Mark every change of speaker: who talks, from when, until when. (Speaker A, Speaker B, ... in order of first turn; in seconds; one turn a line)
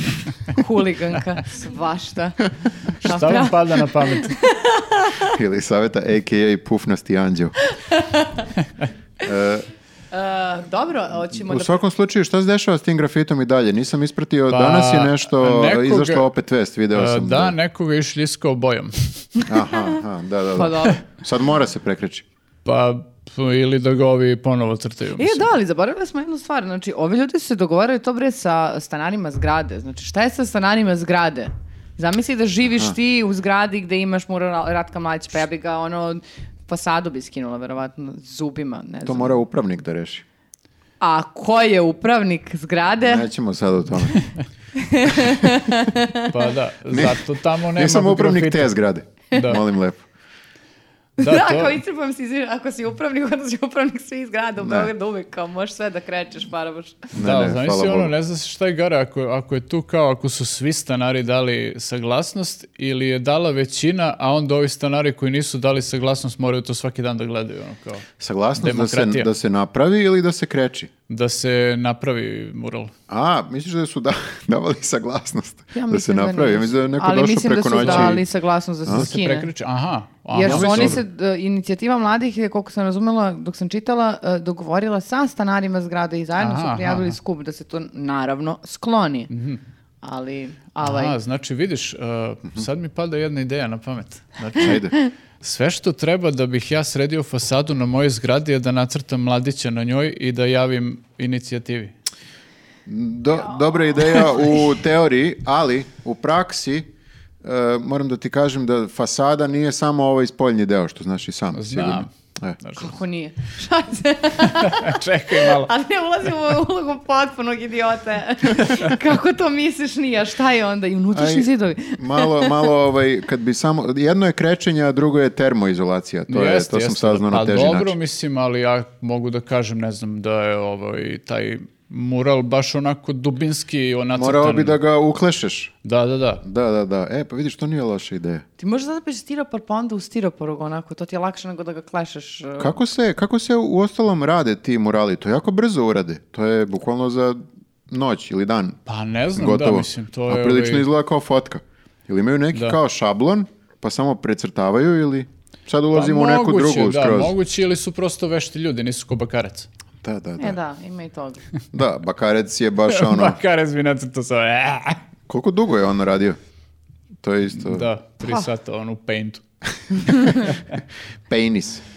Speaker A: 0.4-5.4
Speaker B: 3.0-4.4
Speaker C: 5.2-7.5
Speaker A: 7.7-8.5
Speaker C: 9.2-9.7
Speaker A: 10.1-11.8
Speaker C: 11.3-17.6
Speaker B: 14.5-16.3
Speaker B: 16.9-19.3
Speaker A: 19.4-19.9
Speaker C: 19.4-22.2
Speaker A: 20.5-21.0
Speaker B: 22.6-25.5
Speaker A: 25.2-39.4
Speaker C: 39.0-40.2
Speaker A: 41.0-43.3
Speaker C: 43.0-44.2
Speaker A: 44.7-46.3
Speaker B: 46.3-48.7
Speaker C: 46.9-50.0
Speaker B: 49.3-49.6
Speaker A: 51.2-57.1
Speaker B: 51.2-51.8
Speaker C: 54.6-54.9
Speaker C: 57.1-58.1
Speaker B: 57.2-68.1
Speaker C: 68.2-70.9
Speaker B: 68.6-69.3
Speaker B: 71.1-72.9
Speaker C: 73.1-78.2
Speaker A: 75.7-79.5
Speaker B: 77.8-78.2
Speaker B: 78.9-81.0
Speaker A: 80.3-89.3
Speaker C: 80.4-81.0
Speaker B: 86.4-87.2
Speaker B: 89.3-89.6
Speaker A: 90.0-91.2
Speaker B: 90.8-101.9
Speaker C: 94.6-94.9
Speaker C: 102.9-106.9
Speaker C: 107.4-112.6
Speaker B: 111.5-112.1
Speaker B: 112.6-113.0
Speaker A: 112.8-122.7
Speaker B: 114.5-115.7
Speaker C: 121.1-128.0
Speaker B: 126.3-134.8
Speaker C: 134.2-135.7
Speaker B: 135.8-136.4
Speaker C: 136.4-138.4
Speaker A: 138.6-142.8
Speaker C: 142.6-148.8
Speaker B: 148.9-150.9
Speaker C: 149.4-157.3
Speaker B: 152.5-152.8
Speaker B: 155.9-159.7
Speaker C: 160.0-160.6
Speaker A: 160.4-161.4
Speaker C: 161.7-163.4
Speaker B: 162.9-165.0
Speaker C: 165.3-166.4
Speaker C: 167.2-167.9
Speaker B: 167.6-169.4
Speaker A: 170.0-170.6
Speaker C: 170.1-170.5
Speaker C: 171.3-171.8